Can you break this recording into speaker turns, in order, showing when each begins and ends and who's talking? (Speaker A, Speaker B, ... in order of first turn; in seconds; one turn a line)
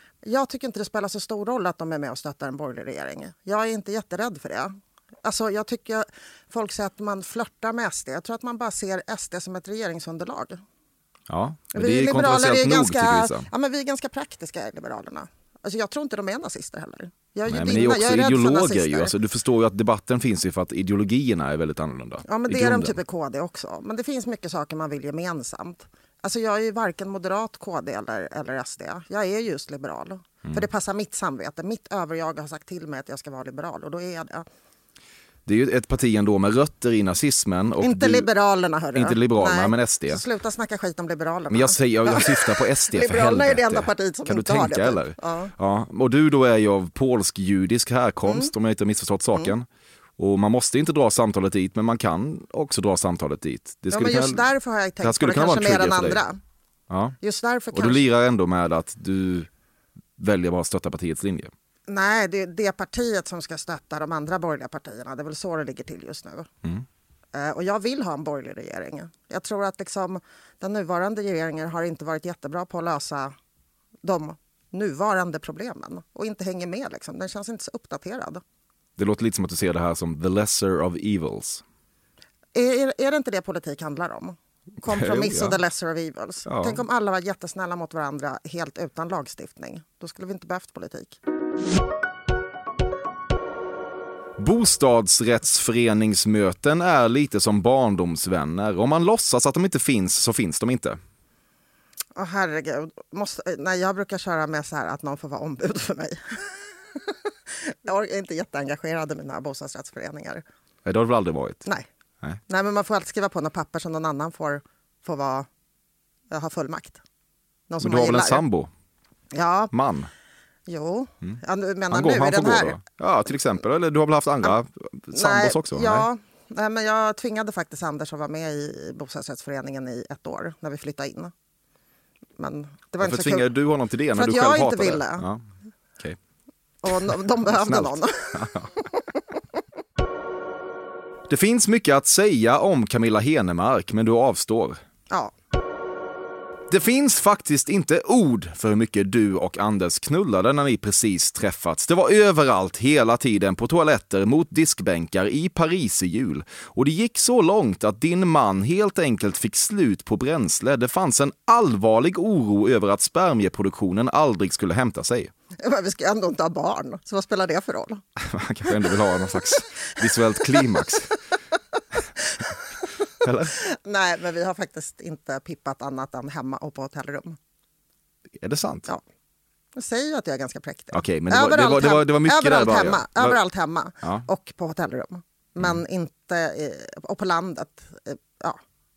Speaker A: 0.2-10.6
Speaker B: 11.3-13.5
Speaker A: 11.7-19.1
Speaker B: 17.5-23.0
Speaker A: 22.2-34.5
Speaker B: 35.5-38.3
Speaker A: 37.8-45.5
Speaker B: 38.9-40.2
Speaker B: 41.5-49.7
Speaker A: 48.2-48.5
Speaker B: 50.2-54.5
Speaker A: 53.9-56.4
Speaker B: 55.0-56.2
Speaker B: 56.9-57.2
Speaker A: 57.2-58.0
Speaker B: 57.7-59.5
Speaker B: 60.2-61.5
Speaker A: 61.9-66.5
Speaker A: 67.3-73.3
Speaker A: 74.0-78.4
Speaker B: 79.0-81.6
Speaker A: 82.5-91.2
Speaker B: 84.8-85.6
Speaker B: 86.5-86.8
Speaker B: 94.4-101.0
Speaker A: 102.1-110.4
Speaker B: 110.8-111.6
Speaker A: 112.5-115.5
Speaker A: 116.3-117.0
Speaker A: 117.7-118.4
Speaker B: 117.8-118.7
Speaker A: 119.3-119.7
Speaker B: 119.7-120.1
Speaker A: 120.7-122.8
Speaker B: 121.9-126.1
Speaker A: 125.1-131.3
Speaker A: 132.4-133.5
Speaker B: 133.0-135.4
Speaker A: 134.1-135.3
Speaker A: 136.8-139.2
Speaker B: 136.9-138.7
Speaker B: 141.3-144.8
Speaker B: 146.7-165.3
Speaker A: 165.6-168.0
Speaker B: 168.2-171.1
Speaker A: 168.7-168.9
Speaker A: 169.5-170.9
Speaker A: 172.3-172.6
Speaker B: 173.2-173.6
Speaker A: 173.5-177.4
Speaker B: 178.4-178.9
Speaker A: 179.7-188.6
Speaker B: 180.9-183.4